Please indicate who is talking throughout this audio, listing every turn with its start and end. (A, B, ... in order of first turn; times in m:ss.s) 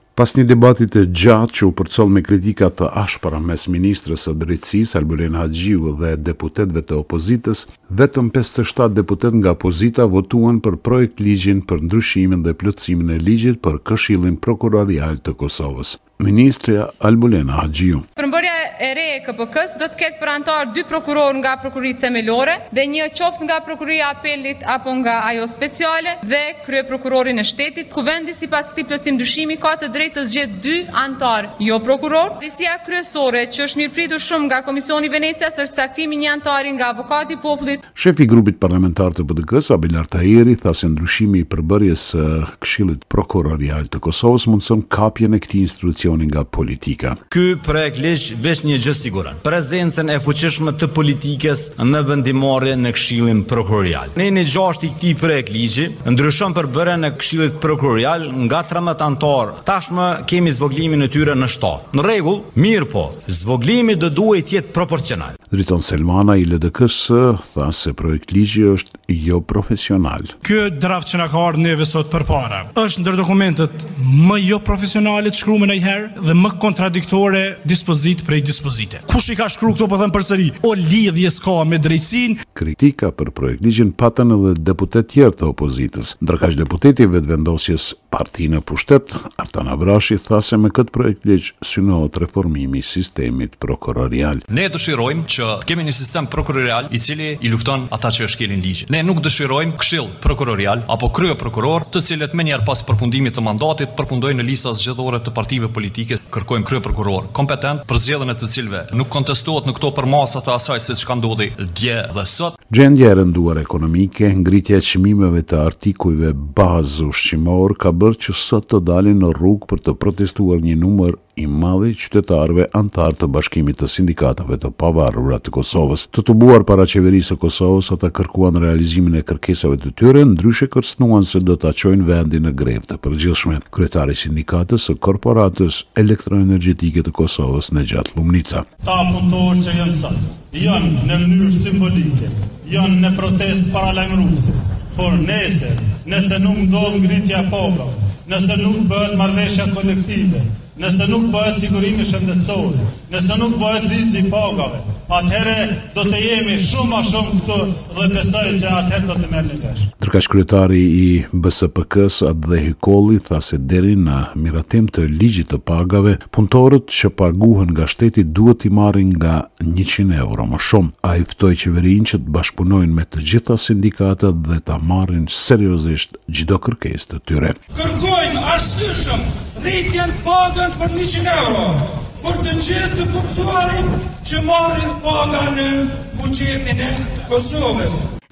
0:00.2-0:18.0 A
0:18.2-0:37.8 B
0:37.9-0:47.2 A
0:47.3-1:05.4 C
1:05.5-1:10.3 A
1:10.4-1:22.4 D
1:22.5-1:34.4 A
1:34.5-1:52.6 E
1:52.7-2:18.6 A
2:18.8-2:39.9 F
2:40.0-2:57.6 A
2:57.8-3:08.1 G
3:04.2-3:05.3 D